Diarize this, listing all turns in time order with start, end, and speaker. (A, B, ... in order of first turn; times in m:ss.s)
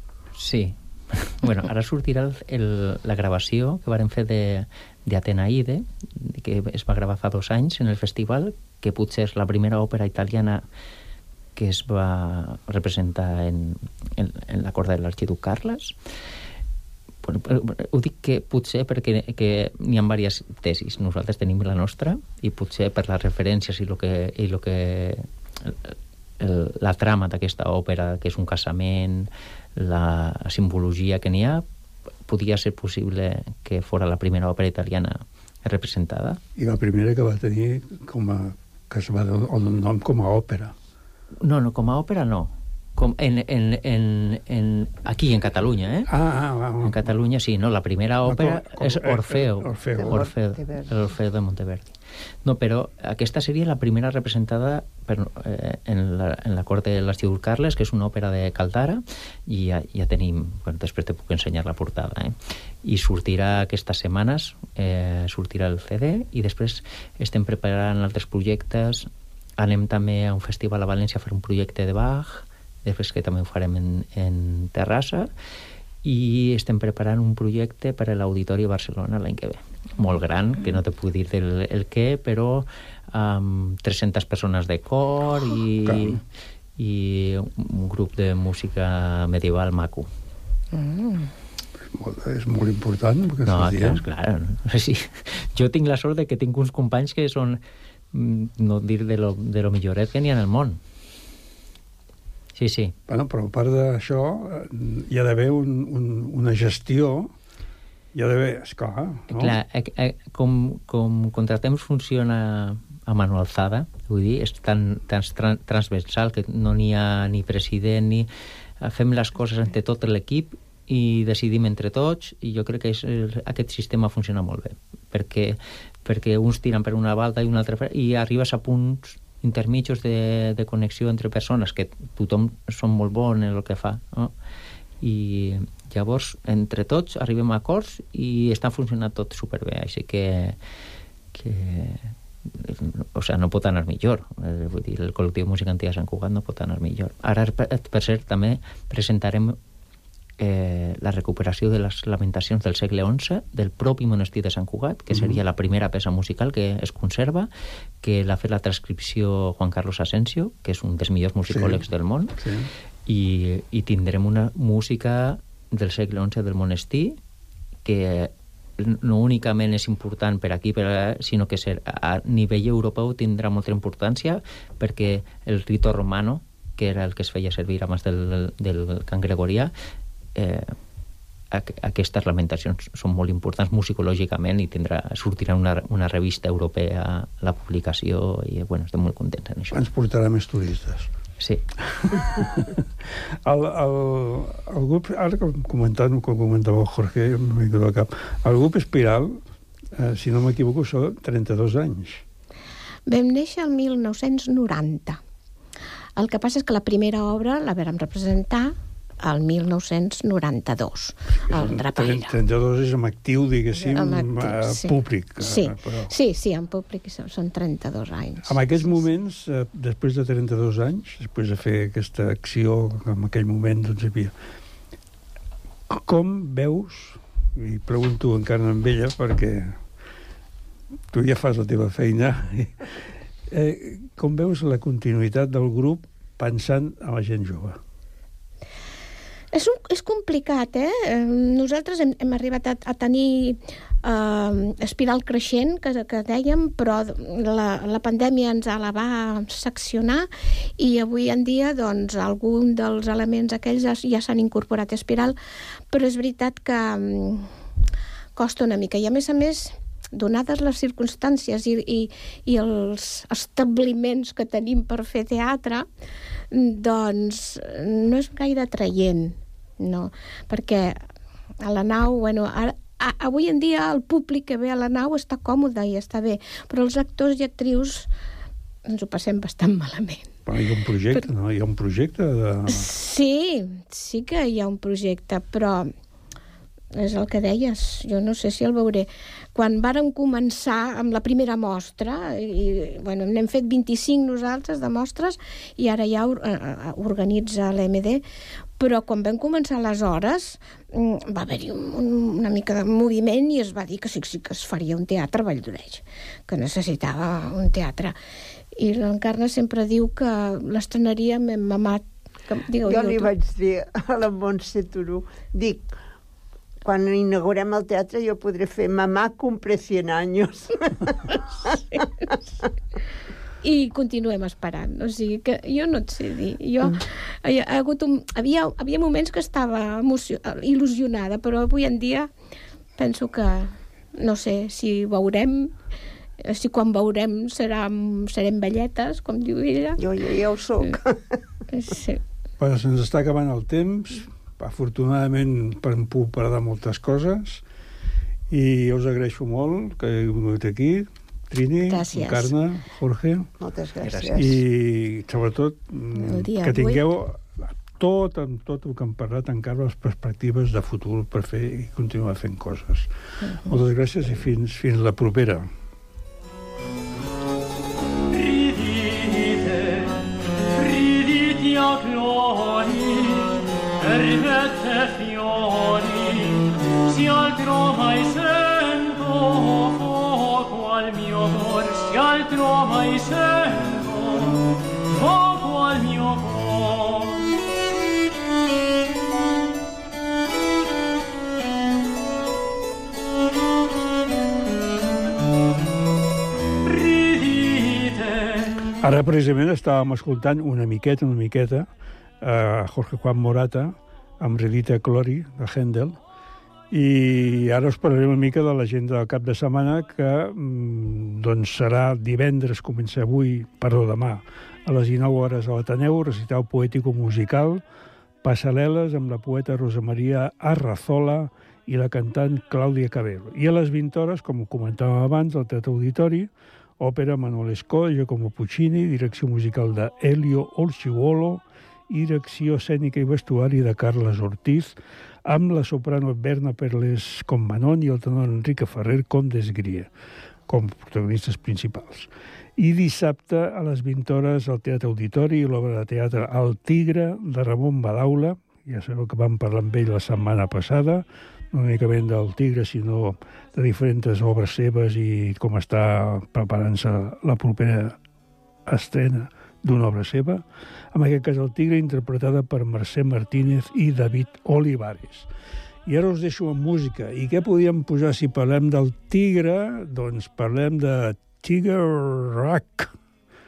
0:00.4-0:10.6 A
0:11.6-0:16.0 A
0:17.2-0:31.6 A
0:32.3-0:36.4 A
0:36.6-0:40.8 B
0:41.4-0:46.1 A
0:46.1-0:47.0 B
0:46.8-1:15.3 A
0:48.2-0:50.3 B
0:50.0-0:51.1 C
1:16.0-1:26.2 A
1:25.8-1:26.2 B
1:26.8-1:30.1 A
1:30.7-1:31.3 D
1:31.9-1:34.0 B
1:33.4-1:37.6 A
1:38.1-1:40.8 A
1:42.6-1:42.9 A
1:43.1-1:47.3 B
1:48.1-1:49.6 B
1:49.3-1:58.3 A
1:58.8-2:14.3 A
2:15.0-2:20.6 A
2:21.3-2:29.6 A
2:30.4-2:37.5 A
2:35.1-2:35.4 B
2:38.0-2:42.4 A
2:41.5-2:41.9 B
2:42.4-2:42.7 B
2:43.1-2:47.2 A
2:47.8-2:59.7 A
3:00.4-3:00.7 A
3:01.5-3:09.8 A
3:09.7-3:11.1 B
3:11.8-3:12.8 B
3:13.4-3:19.4 B
3:19.9-3:22.2 B
3:23.1-3:25.2 D
3:26.2-3:32.3 D
3:31.5-3:36.1 B
3:34.0-3:39.0 D
3:38.4-3:44.3 B
3:45.9-3:49.8 B
3:51.1-3:52.9 B
3:53.5-3:57.8 B
3:59.5-4:15.4 D
4:15.9-4:17.5 D
4:18.4-4:25.9 D
4:26.5-4:31.0 D
4:31.6-4:38.1 D
4:38.9-4:40.3 D
4:40.5-4:42.9 B
4:42.7-4:45.9 D
4:46.9-4:58.2 D
4:58.8-5:08.2 D
5:08.8-5:13.3 D
5:12.9-5:15.8 C
5:16.8-5:22.0 C
5:23.6-5:32.3 D
5:33.0-5:35.7 D
5:36.4-5:40.0 D
5:40.0-5:41.4 C
5:41.7-5:42.2 D
5:42.6-5:47.6 B
5:48.5-5:53.5 B
5:51.9-5:52.5 D
5:53.6-5:54.6 C
5:54.0-5:54.3 A
5:54.3-6:05.7 B
5:56.2-5:57.0 D
6:11.4-6:12.6 E
6:14.3-6:16.0 E
6:17.4-6:18.3 E
6:20.9-6:24.0 E
6:25.3-6:26.5 E
6:39.0-6:41.9 B
6:42.4-6:46.2 B
6:46.9-6:57.8 B
6:58.4-7:20.1 B
7:20.7-7:38.2 B
7:38.9-7:45.5 B
7:46.1-7:53.1 B